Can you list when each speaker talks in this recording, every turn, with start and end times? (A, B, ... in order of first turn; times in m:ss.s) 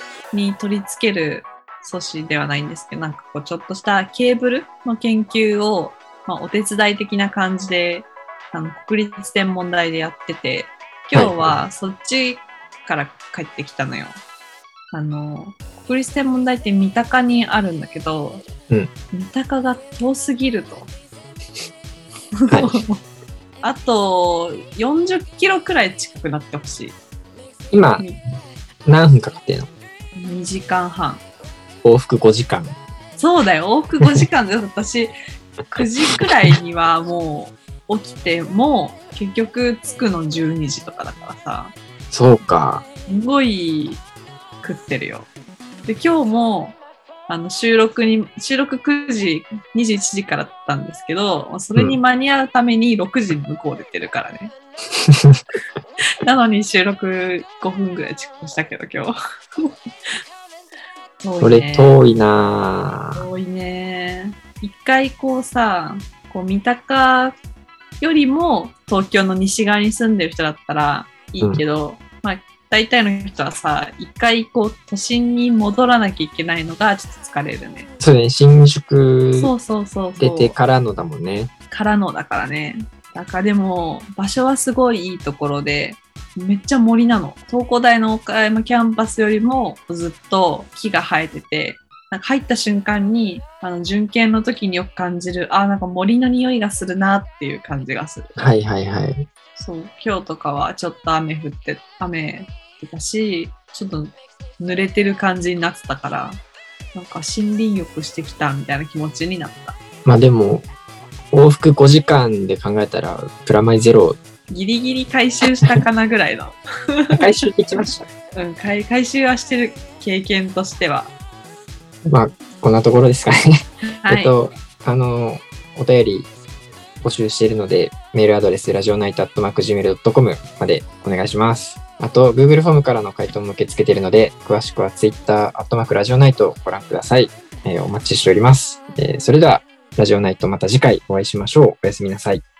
0:00.3-0:14.2 A
0:11.1-0:11.6 B
0:14.9-0:18.4 A
0:19.1-0:20.9 A
0:22.4-0:23.0 A
0:22.5-0:22.8 B
0:23.6-0:27.0 A
0:27.7-0:28.0 B
0:28.8-0:29.7 B
0:30.1-0:31.2 A
0:31.8-0:32.8 B
0:33.2-0:35.1 A
0:35.7-0:41.7 A
0:36.1-0:36.5 B
0:42.1-0:42.8 B
0:43.1-0:44.0 A
0:44.6-0:45.3 A
0:45.8-0:54.5 A
0:55.0-0:55.4 B
0:56.2-0:59.7 A
1:01.2-1:02.0 A
1:01.4-1:03.2 B
1:03.1-1:07.4 A
1:08.0-1:17.9 A
1:18.0-1:19.5 B
1:19.3-1:20.5 A
1:20.2-1:21.5 B
1:21.7-1:38.4 A
1:38.4-1:39.2 B
1:39.6-1:46.4 A
1:46.9-1:49.8 A
1:50.0-1:50.6 B
1:51.3-1:54.2 B
1:54.5-1:57.2 A
1:57.1-1:58.1 B
1:58.3-2:01.1 A
2:02.1-2:06.3 B
2:04.0-2:04.3 A
2:07.0-2:22.4 B